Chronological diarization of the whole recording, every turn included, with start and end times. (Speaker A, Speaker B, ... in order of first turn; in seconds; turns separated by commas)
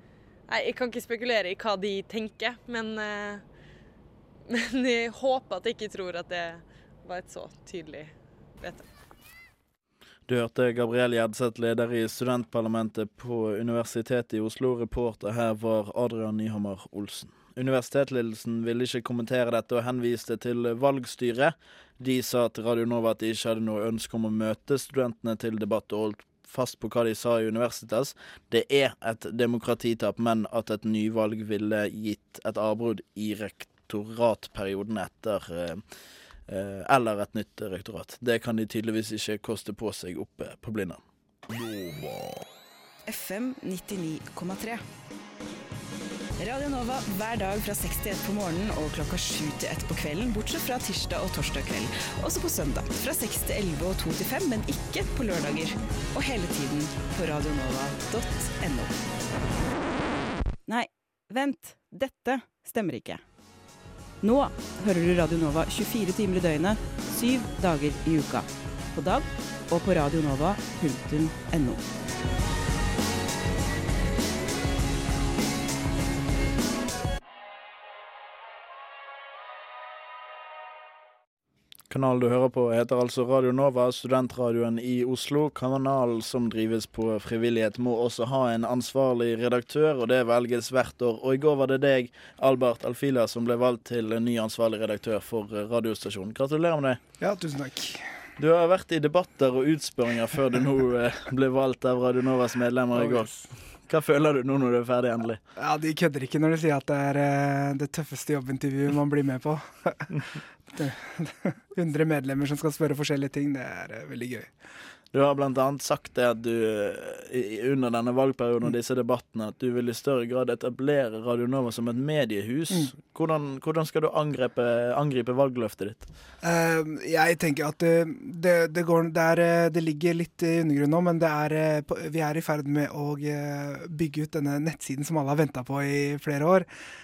Speaker A: 0.5-3.4, Speaker A: 4.5-8.9, Speaker B: 10.3-35.8, Speaker B: 36.5-41.0, Speaker C: 43.0-44.8, Speaker C: 46.4-59.0, Speaker C: 60.7-63.3, Speaker C: 64.2-71.8, Speaker B: 81.9-97.0, Speaker D: 97.2-98.0, Speaker B: 98.4-105.4, Speaker D: 105.6-110.2, Speaker D: 110.8-114.5, Speaker B: 115.1-126.0, Speaker D: 126.4-136.7